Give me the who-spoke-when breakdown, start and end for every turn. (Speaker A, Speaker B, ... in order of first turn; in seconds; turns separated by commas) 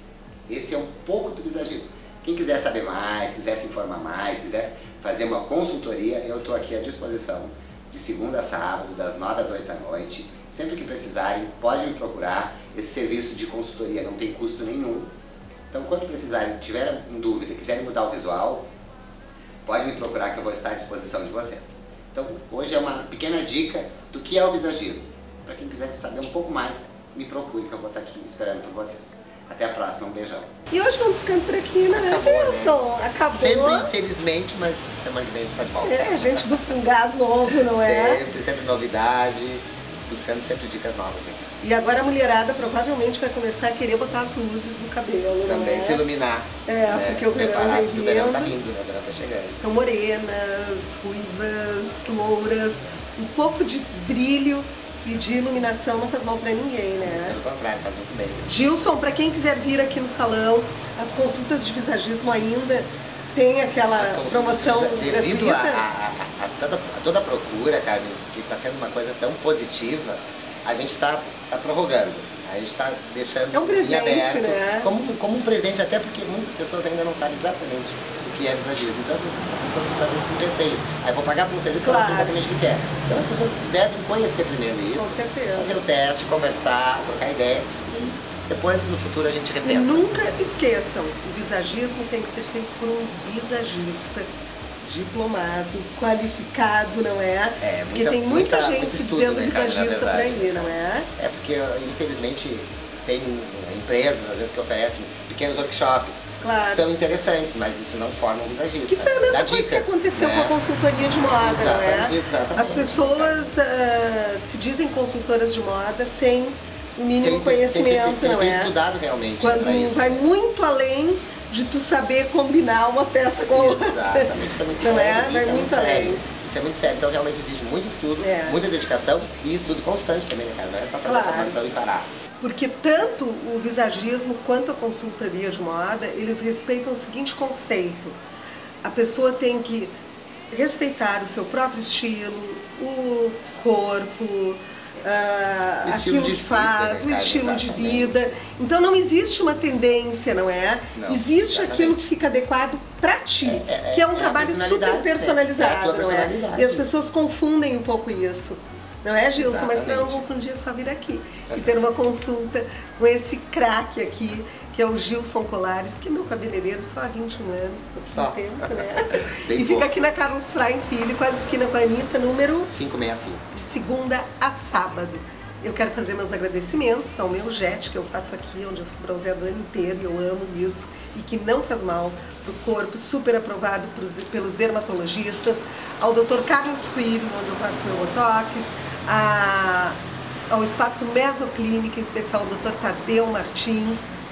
Speaker A: 0.5-15.1, Speaker A: 15.7-18.7, Speaker A: 19.6-30.5, Speaker B: 30.7-33.9, Speaker A: 31.9-36.5, Speaker B: 35.8-38.2, Speaker A: 37.7-41.4, Speaker B: 41.6-46.0, Speaker A: 45.4-49.6, Speaker B: 46.6-48.5, Speaker B: 49.6-57.4, Speaker A: 57.0-58.5, Speaker B: 58.5-65.8, Speaker A: 64.0-90.0, Speaker B: 73.5-74.9, Speaker B: 81.8-82.3, Speaker B: 84.9-85.8, Speaker B: 89.6-94.3, Speaker B: 94.8-101.1, Speaker A: 97.6-110.5, Speaker B: 106.4-106.8, Speaker B: 108.9-118.7, Speaker A: 111.4-113.5, Speaker A: 117.1-120.2, Speaker B: 119.4-126.2, Speaker A: 123.5-132.1, Speaker B: 128.2-128.6, Speaker B: 131.0-131.6, Speaker B: 132.4-138.2, Speaker B: 138.8-139.9, Speaker B: 140.5-172.7, Speaker A: 145.8-148.2, Speaker A: 150.9-152.0, Speaker A: 153.4-156.8, Speaker A: 159.3-160.2, Speaker A: 168.1-169.9, Speaker A: 172.7-173.4, Speaker B: 173.5-194.1